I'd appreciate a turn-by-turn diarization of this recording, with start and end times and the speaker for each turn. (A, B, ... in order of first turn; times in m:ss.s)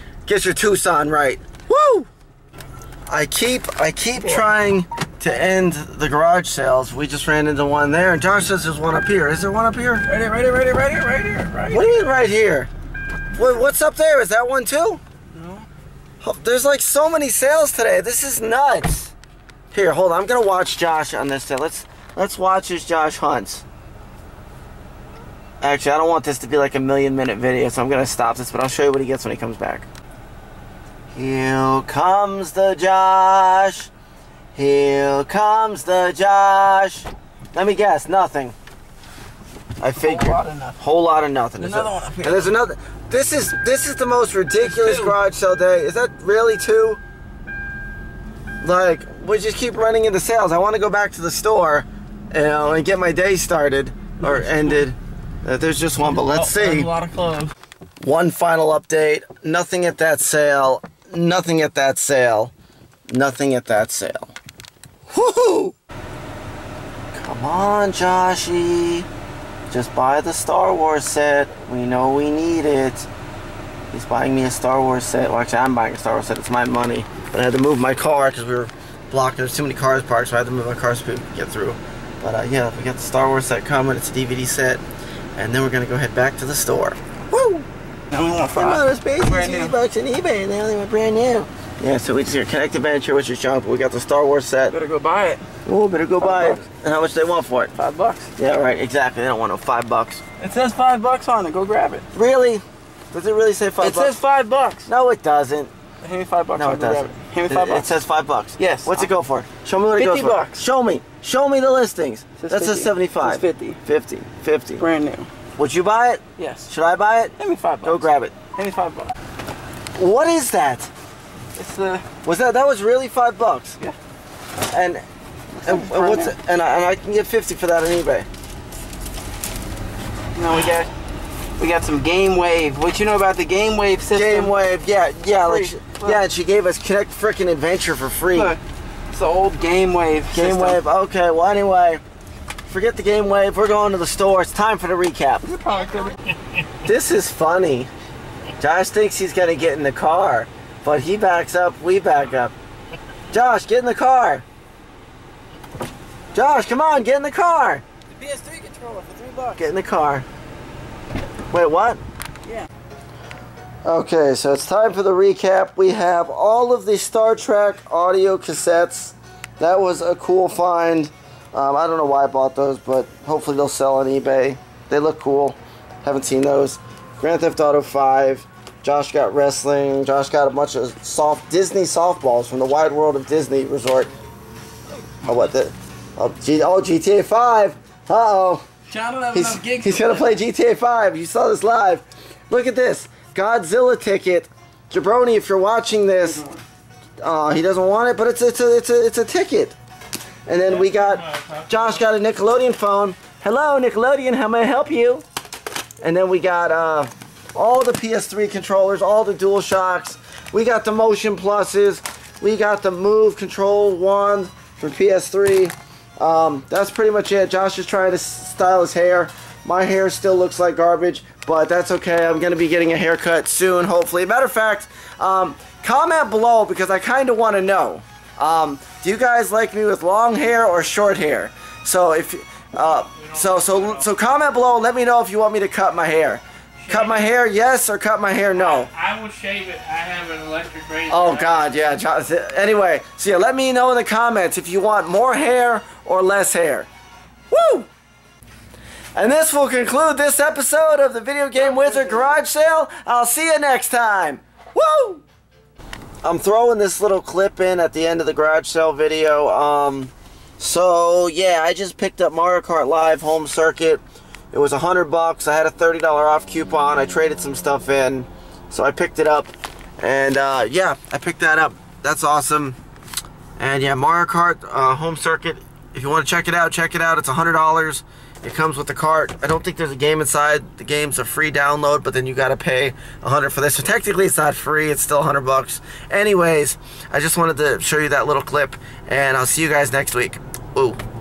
0:00.2-0:02.1 A
0:03.1-0:10.0 A
0:04.2-0:04.5 B
0:10.0-0:12.1 B
0:11.7-0:12.7 A
0:13.3-0:15.0 A
0:15.3-0:15.7 B
0:16.2-0:19.1 A
0:19.7-0:23.6 A
0:25.6-0:29.9 A
0:31.1-0:33.9 A
0:34.5-0:38.6 A
0:39.8-0:47.0 A
0:40.0-0:40.8 B
0:41.6-0:42.5 B
0:44.6-0:45.2 B
0:48.6-0:56.9 A
0:54.2-0:54.8 B
0:56.1-0:57.5 B
0:58.0-1:02.5 A
1:03.1-1:04.3 A
1:05.1-1:05.7 A
1:07.1-1:09.1 A
1:09.7-1:13.1 A
1:13.9-1:24.8 A
1:25.4-1:27.6 A
1:28.1-1:29.8 B
1:28.5-1:34.7 A
1:34.7-1:35.4 B
1:35.6-1:37.7 A
1:36.2-1:36.6 B
1:37.7-1:38.3 B
1:38.4-1:40.2 A
1:40.4-1:42.1 B
1:42.1-1:44.2 A
1:43.8-1:44.9 B
1:44.9-1:45.7 A
1:46.0-1:47.9 B
1:46.6-1:54.8 A
1:48.6-1:49.1 B
1:50.0-1:50.6 B
1:52.4-1:53.8 B
1:54.8-1:55.3 B
1:55.6-1:58.3 A
1:56.4-1:56.7 B
1:57.4-1:59.1 B
1:59.9-2:00.9 A
2:01.5-2:02.0 B
2:02.2-2:03.8 A
2:04.7-2:05.0 A
2:05.6-2:06.4 B
2:05.6-2:08.3 A
2:10.3-2:10.9 B
2:11.6-2:14.5 B
2:14.1-2:18.5 A
2:15.4-2:16.2 B
2:18.3-2:18.6 B
2:19.1-2:20.8 B
2:20.3-2:22.0 A
2:22.6-2:25.4 A
2:25.4-2:26.2 B
2:26.8-2:27.9 A
2:28.6-2:32.5 A
2:33.3-2:34.4 A
2:36.3-2:37.8 A
2:38.1-2:39.7 B
2:39.6-2:40.3 A
2:41.5-2:42.0 A
2:43.8-3:04.1 A
3:05.2-3:08.6 A
3:08.9-3:10.4 B
3:09.3-3:16.4 A
3:16.2-3:16.6 B
3:17.2-3:19.8 A
3:20.4-3:25.2 A
3:21.4-3:21.6 C
3:26.0-3:58.9 A
3:52.8-3:54.1 C
3:56.8-3:57.3 C
3:58.5-4:01.6 C
4:01.1-4:06.9 A
4:07.5-4:07.9 A
4:09.2-4:15.2 A
4:16.2-4:32.8 A
4:33.6-4:51.0 A